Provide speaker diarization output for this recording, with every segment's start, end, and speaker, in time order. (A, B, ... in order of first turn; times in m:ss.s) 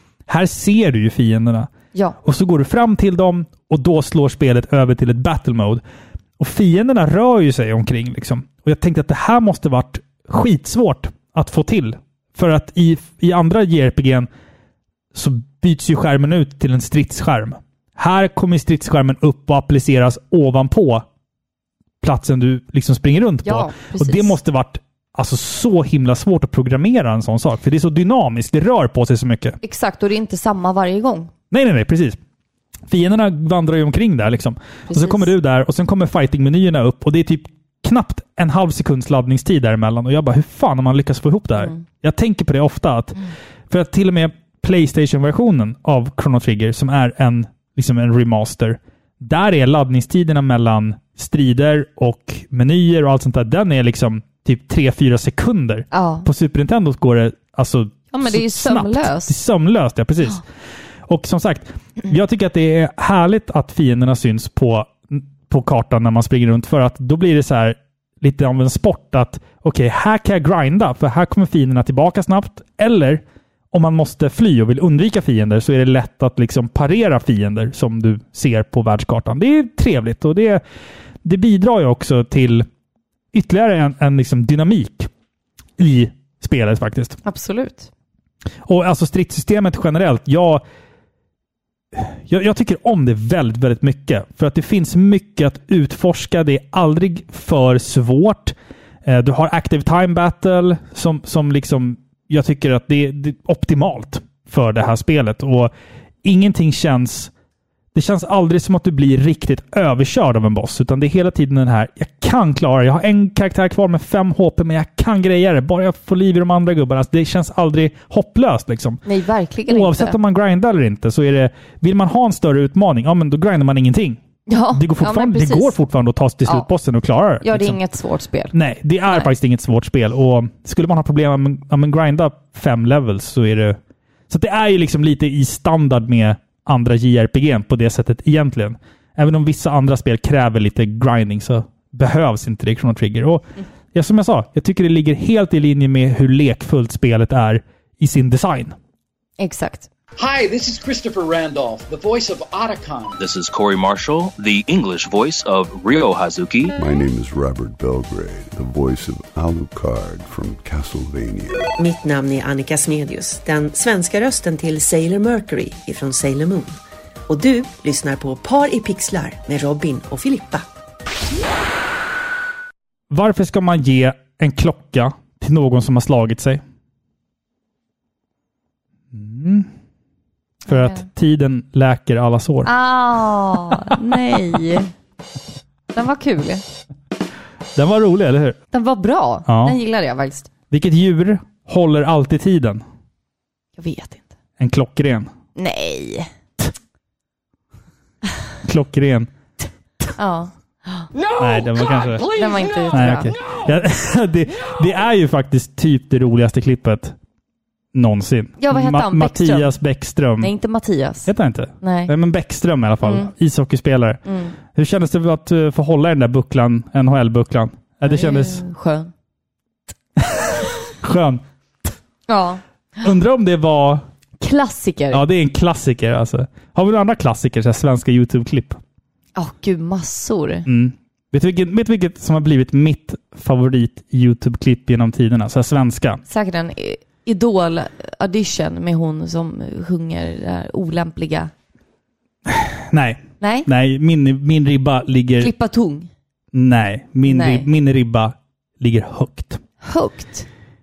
0:00.3-0:01.7 A
0:02.2-0:05.8 A
0:06.4-0:14.3 A
0:15.1-0:21.0 A
0:22.0-0:29.6 A
0:23.4-0:24.4 B
0:29.6-0:31.3 B
0:31.5-0:32.2 A
0:32.9-1:00.4 A
0:34.9-0:35.2 B
0:55.9-0:56.3 B
0:58.1-0:59.3 B
1:01.1-1:20.6 A
1:21.2-1:22.6 A
1:23.3-1:25.1 A
1:25.8-1:27.2 A
1:27.2-1:27.9 B
1:28.6-1:30.6 A
1:31.9-1:38.5 A
1:39.0-1:45.7 A
1:46.2-1:47.3 A
1:47.9-1:59.0 A
1:59.0-2:00.2 B
1:59.7-2:04.2 A
2:04.5-2:05.7 B
2:04.7-2:07.8 A
2:07.4-2:08.5 B
2:08.5-2:13.8 A
2:14.3-2:28.8 A
2:29.4-2:29.9 B
2:30.2-2:33.2 C
2:33.2-2:36.7 D
2:36.8-2:41.7 E
2:41.8-2:50.8 F
2:53.1-2:56.6 A
2:59.1-2:59.7 A
3:00.6-3:02.7 A
3:00.7-3:01.0 B
3:02.6-3:04.9 B
3:03.5-3:04.6 A
3:05.9-3:06.6 B
3:07.8-3:08.6 A
3:08.7-3:10.5 B
3:09.4-3:09.7 A
3:10.7-3:12.8 A
3:13.8-3:14.3 B
3:14.6-3:15.3 A
3:15.5-3:16.3 B
3:18.6-3:19.3 A
3:20.2-3:21.1 B
3:21.4-3:22.3 A
3:22.2-3:23.3 B
3:22.9-3:27.2 A
3:27.9-3:30.5 A
3:28.6-3:29.7 B
3:30.4-3:31.3 B
3:31.3-3:38.6 A
3:31.8-3:32.1 B
3:33.0-3:33.3 B
3:34.2-3:34.5 B
3:38.0-3:39.1 B
3:40.2-3:41.9 A
3:42.3-3:43.1 B
3:43.0-3:44.0 A
3:44.4-3:45.2 B
3:45.1-3:48.8 A
3:49.4-3:50.6 B
3:50.6-3:56.2 A
3:56.3-4:01.5 B
4:02.4-4:05.5 A
4:03.4-4:03.7 B
4:05.4-4:06.1 B
4:06.5-4:09.6 A
4:07.2-4:07.7 B
4:09.8-4:10.5 B